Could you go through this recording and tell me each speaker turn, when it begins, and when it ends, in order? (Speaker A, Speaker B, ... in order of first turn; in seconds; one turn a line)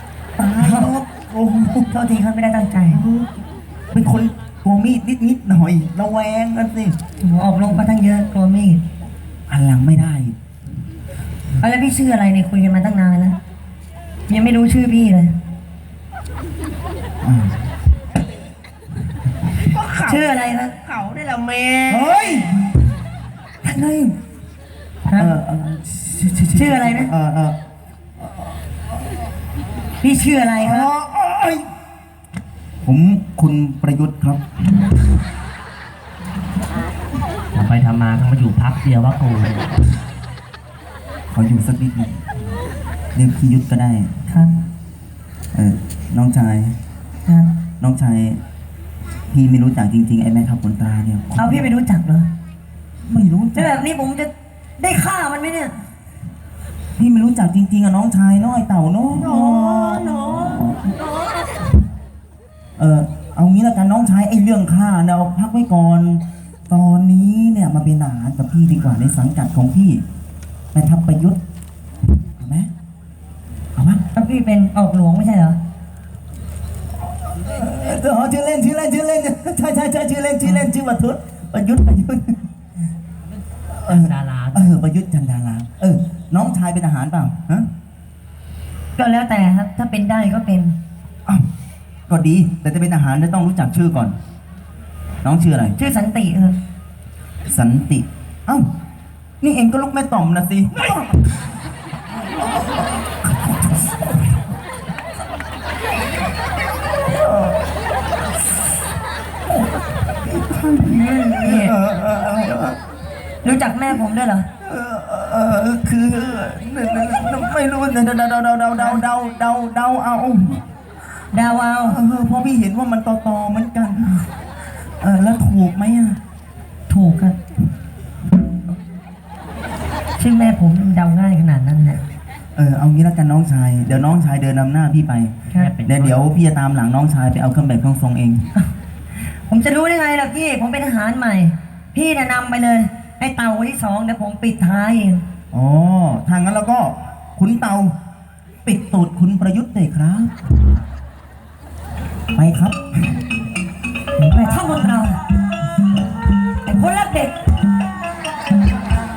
Speaker A: 0.4-1.9
Speaker B: 0.6-0.9
Speaker B: 1.9-3.0
Speaker A: 2.9-3.4
Speaker A: 3.9-7.0
Speaker B: 7.2-8.8
Speaker A: 9.5-10.3
Speaker B: 11.6-13.4
Speaker B: 14.3-15.3
Speaker A: 17.2-17.6
Speaker B: 19.8-20.9
Speaker C: 21.0-21.9
Speaker A: 21.9-22.6
Speaker A: 23.6-24.2
Speaker B: 25.1-25.3
Speaker A: 25.1-27.6
Speaker B: 26.5-27.1
Speaker B: 30.0-30.9
Speaker A: 30.6-31.6
Speaker A: 32.8-34.4
Speaker C: 37.5-39.8
Speaker A: 41.3-42.3
Speaker A: 43.1-44.1
Speaker B: 44.3-44.5
Speaker A: 45.5-46.7
Speaker A: 47.8-48.4
Speaker A: 49.3-51.7
Speaker B: 51.4-52.3
Speaker A: 53.1-53.7
Speaker B: 53.5-55.8
Speaker A: 57.0-61.0
Speaker A: 62.8-70.0
Speaker A: 70.7-71.4
Speaker A: 72.4-72.7
Speaker A: 73.8-74.0
Speaker B: 74.1-75.6
Speaker A: 77.3-82.4
Speaker A: 83.8-87.7
Speaker C: 83.8-84.8
Speaker B: 89.0-90.8
Speaker A: 92.1-94.2
Speaker A: 95.2-95.8
Speaker B: 95.8-96.5
Speaker A: 97.5-98.7
Speaker A: 99.4-101.2
Speaker A: 102.5-104.4
Speaker A: 107.1-107.6
Speaker A: 110.2-112.8
Speaker B: 111.2-111.7
Speaker B: 113.4-114.5
Speaker A: 114.6-120.6
Speaker B: 121.3-122.0
Speaker A: 121.8-124.3
Speaker A: 125.0-126.2
Speaker B: 126.9-127.4
Speaker B: 130.2-132.0
Speaker A: 132.6-138.4
Speaker C: 135.5-136.2
Speaker B: 139.5-145.2
Speaker A: 145.5-147.9
Speaker A: 148.6-150.3
Speaker A: 152.3-153.2
Speaker B: 154.2-155.2
Speaker B: 156.7-157.3